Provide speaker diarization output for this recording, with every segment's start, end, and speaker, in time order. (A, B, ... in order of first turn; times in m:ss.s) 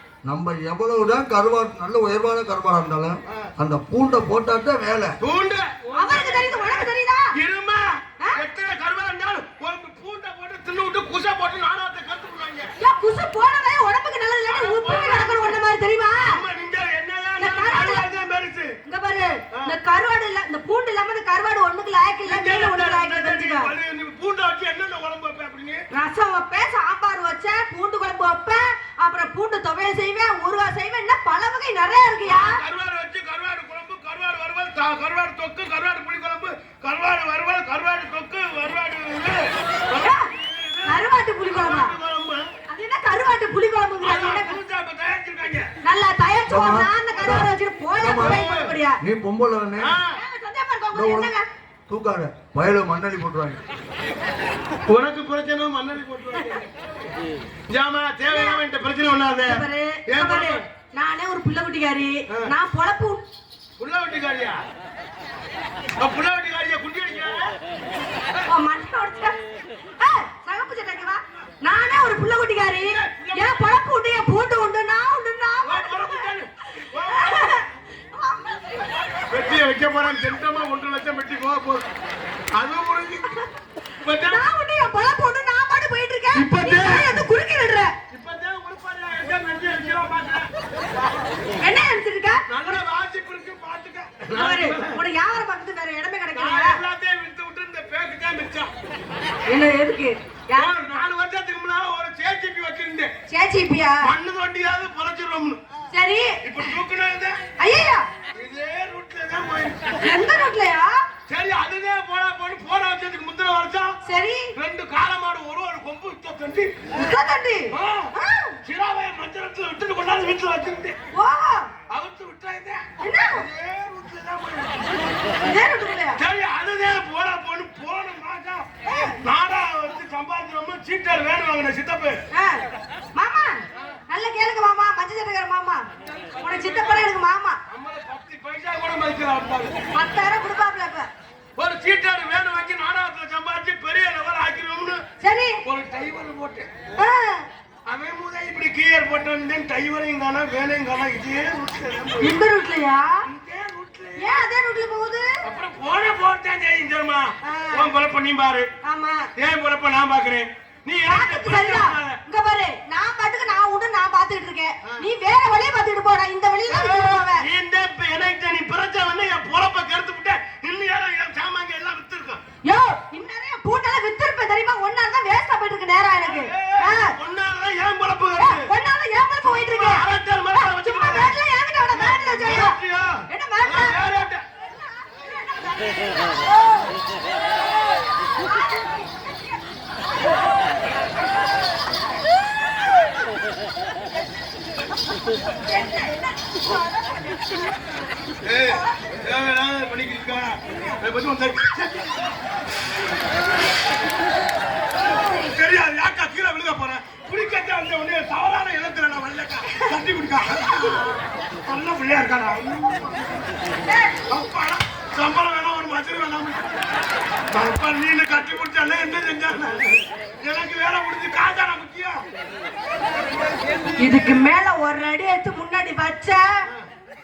0:00.2-0:05.1 A
0:05.2-0:12.7 B
0:05.9-0:07.3 C
0:12.8-0:16.4 C
0:14.5-0:15.6 B
0:16.2-0:18.7 B
0:17.4-0:18.1 C
0:18.9-0:23.7 C
0:22.2-0:25.8 B
0:25.9-0:32.6 C
0:32.3-0:42.5 B
0:40.8-0:42.0 C
0:42.7-0:44.6 C
0:44.0-0:45.7 B
0:45.8-0:49.0 C
0:46.5-0:47.5 A
0:48.0-0:48.4 A
0:48.1-0:48.7 B
0:49.0-0:50.0 A
0:49.8-0:50.2 B
0:50.2-0:51.4 C
0:50.9-0:51.3 A
0:51.9-0:53.6 A
0:54.9-0:56.7 B
0:57.7-1:00.6 B
0:58.3-0:58.6 C
0:59.5-1:03.2 C
1:03.8-1:04.6 B
1:06.0-1:07.6 B
1:08.4-1:09.4 C
1:10.0-1:16.3 C
1:12.8-1:13.8 B
1:15.6-1:17.6 B
1:16.9-1:19.6 C
1:19.3-1:21.9 B
1:22.5-1:23.4 B
1:24.0-1:24.5 B
1:24.2-1:27.9 C
1:26.4-1:27.3 B
1:28.1-1:30.5 B
1:31.6-1:32.4 C
1:32.5-1:35.0 B
1:34.3-1:36.8 C
1:36.4-1:38.7 B
1:39.5-1:40.7 C
1:40.5-1:43.1 B
1:43.3-1:44.1 C
1:44.0-1:45.6 B
1:45.9-1:46.4 C
1:46.4-1:47.4 B
1:47.6-1:48.0 C
1:48.4-1:49.8 B
1:50.0-1:51.0 C
1:51.3-1:53.9 B
1:54.0-1:54.5 C
1:54.6-1:56.7 B
1:57.0-1:58.6 C
1:57.7-1:58.1 B
1:58.6-2:01.0 B
2:01.1-2:01.7 C
2:01.9-2:05.1 B
2:03.0-2:03.4 C
2:05.4-2:06.2 C
2:06.2-2:08.7 B
2:08.9-2:09.2 C
2:09.2-2:12.2 B
2:12.3-2:12.6 C
2:13.2-2:15.8 C
2:16.2-2:17.1 B
2:16.4-2:17.6 C
2:17.7-2:19.8 B
2:19.9-2:21.1 C
2:21.6-2:25.0 B
2:25.2-2:25.6 C
2:25.6-2:26.7 B
2:27.0-2:27.5 C
2:27.9-2:32.4 B
2:32.2-2:33.2 C
2:33.3-2:34.4 B
2:34.2-2:35.3 C
2:35.4-2:38.7 B
2:37.4-2:37.9 C
2:38.8-2:39.3 C
2:39.4-2:42.2 B
2:41.1-2:47.5 C
2:46.7-2:52.4 B
2:52.7-2:57.2 C
2:56.2-2:58.7 B
2:58.4-3:02.8 C
2:59.5-3:01.3 B
3:01.9-3:04.4 B
3:03.3-3:04.1 C
3:05.0-3:06.8 C
3:08.4-3:09.2 C
3:18.4-3:22.1 B
3:25.3-3:31.1 B
3:31.6-3:33.4 B
3:33.9-3:34.1 C
3:34.3-3:36.8 B
3:37.5-3:42.2 B
3:44.0-3:46.6 C